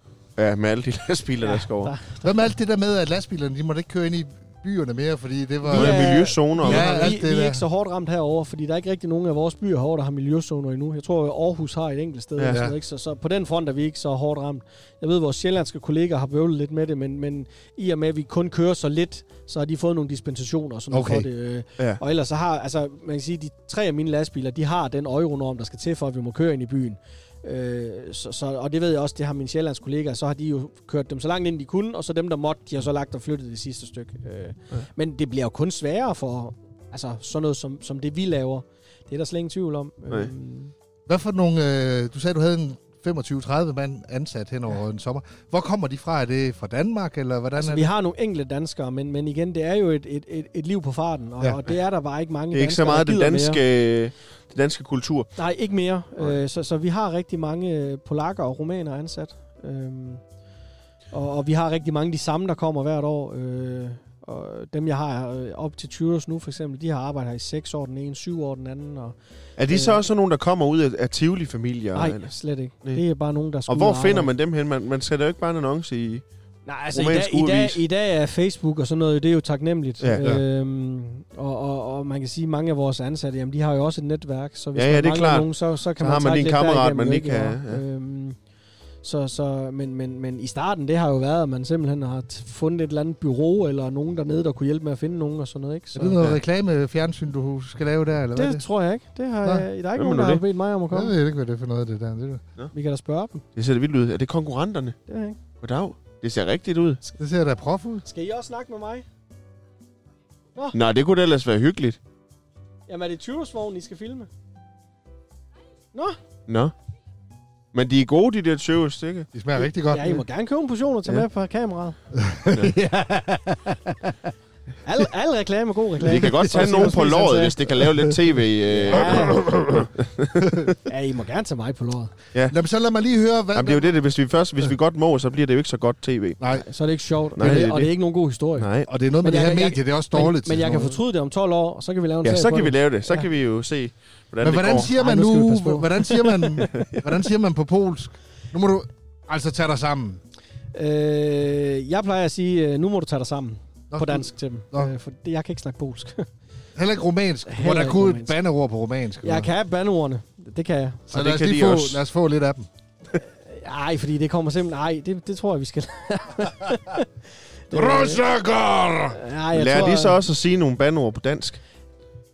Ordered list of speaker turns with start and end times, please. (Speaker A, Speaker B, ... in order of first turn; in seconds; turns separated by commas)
Speaker A: 0.4-1.9, Speaker B: 1.4-2.3, Speaker C: 2.2-7.6, Speaker B: 5.6-40.7, Speaker A: 5.7-7.1, Speaker C: 12.5-12.8, Speaker C: 20.9-21.3, Speaker C: 41.1-47.9, Speaker B: 47.5-53.6, Speaker A: 52.5-55.3, Speaker B: 55.4-60.2, Speaker B: 61.1-69.2, Speaker A: 69.6-72.3, Speaker B: 69.7-70.0, Speaker B: 71.9-74.3, Speaker A: 73.7-76.2, Speaker B: 76.7-88.4, Speaker A: 76.9-77.8, Speaker A: 80.0-80.3, Speaker A: 84.7-87.8, Speaker B: 89.0-96.2, Speaker C: 95.9-98.6, Speaker B: 98.3-101.1, Speaker A: 100.0-100.4, Speaker C: 100.9-102.4, Speaker B: 102.7-103.4, Speaker A: 103.5-105.0, Speaker B: 105.1-105.4, Speaker A: 105.6-107.0, Speaker C: 107.2-108.0, Speaker B: 108.0-109.0, Speaker A: 110.7-112.0, Speaker B: 112.9-114.3, Speaker A: 116.5-116.7, Speaker A: 117.7-119.3, Speaker C: 119.3-120.2, Speaker B: 119.6-122.0, Speaker C: 122.1-124.1, Speaker A: 122.5-122.7, Speaker B: 124.8-127.8, Speaker A: 126.0-130.7, Speaker C: 127.8-128.1, Speaker B: 128.8-129.5, Speaker C: 128.8-129.9, Speaker C: 130.4-130.7, Speaker B: 130.8-132.1, Speaker C: 132.5-133.9, Speaker A: 133.5-136.4, Speaker C: 136.4-136.6, Speaker B: 136.5-138.7, Speaker A: 137.4-137.9, Speaker C: 137.4-137.6, Speaker A: 138.6-138.9, Speaker C: 138.9-141.0, Speaker B: 139.2-143.2, Speaker A: 142.2-144.9, Speaker C: 144.4-150.2, Speaker B: 144.8-146.7, Speaker A: 146.6-147.0, Speaker B: 150.7-156.3, Speaker C: 153.9-154.9, Speaker C: 156.8-159.5, Speaker B: 157.4-158.3, Speaker B: 159.2-161.0, Speaker A: 161.1-162.0, Speaker C: 161.1-162.7, Speaker B: 163.2-167.1, Speaker B: 167.7-168.2, Speaker C: 167.7-169.2, Speaker B: 169.1-170.2, Speaker A: 169.5-171.6